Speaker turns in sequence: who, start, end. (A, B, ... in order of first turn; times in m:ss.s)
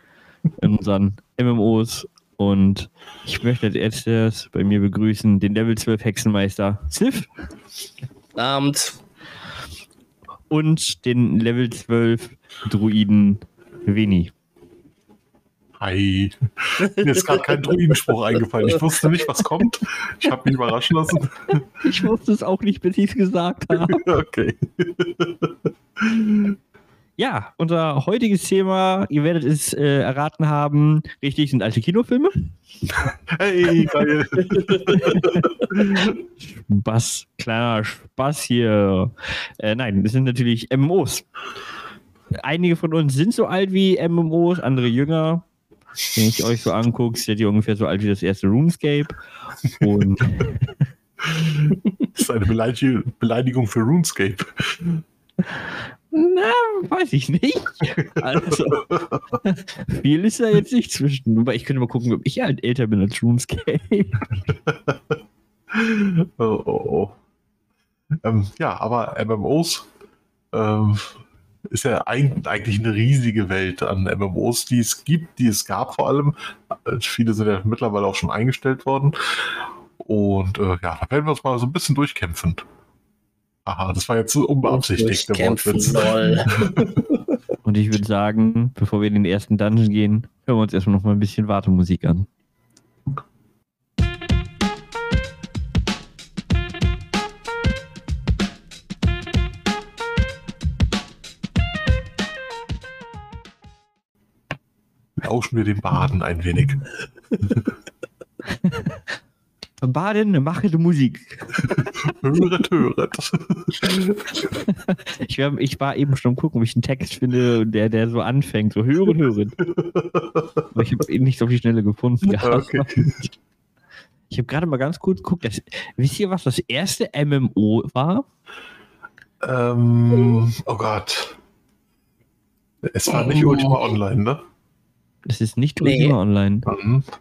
0:00.6-0:07.3 A
0:08.4-0:09.0 B
0:10.5-0:14.3 A
0:15.8-0:21.6 C
0:16.9-0:17.5 B
0:18.7-0:19.0 B
0:21.8-0:24.1 A
0:23.8-0:26.6 C
0:27.2-0:32.4 A
0:32.9-0:36.2 C
0:34.7-0:35.7 A
0:36.4-0:41.3 A
0:42.3-0:45.4 A
0:46.1-0:49.2 A
0:49.7-0:50.7 A
0:51.2-0:55.0 C
0:55.6-0:58.9 A
0:58.0-0:59.4 C
0:59.4-1:04.3 A
1:04.6-1:05.1 C
1:05.7-1:07.2 C
1:08.2-1:09.9 C
1:10.5-1:22.6 C
1:23.7-1:27.0 C
1:24.6-1:27.2 B
1:27.6-1:32.3 A
1:45.2-1:46.9 C
1:48.6-1:49.0 A
1:49.8-1:51.9 A
1:51.9-1:54.2 C
1:54.6-1:59.6 A
1:59.6-2:00.6 C
2:00.7-2:03.1 A
2:02.3-2:03.2 C
2:04.3-2:08.2 A
2:09.4-2:11.4 C
2:12.8-2:14.4 C
2:13.1-2:13.8 B
2:15.3-2:16.7 A
2:15.8-2:16.2 B
2:16.7-2:17.1 C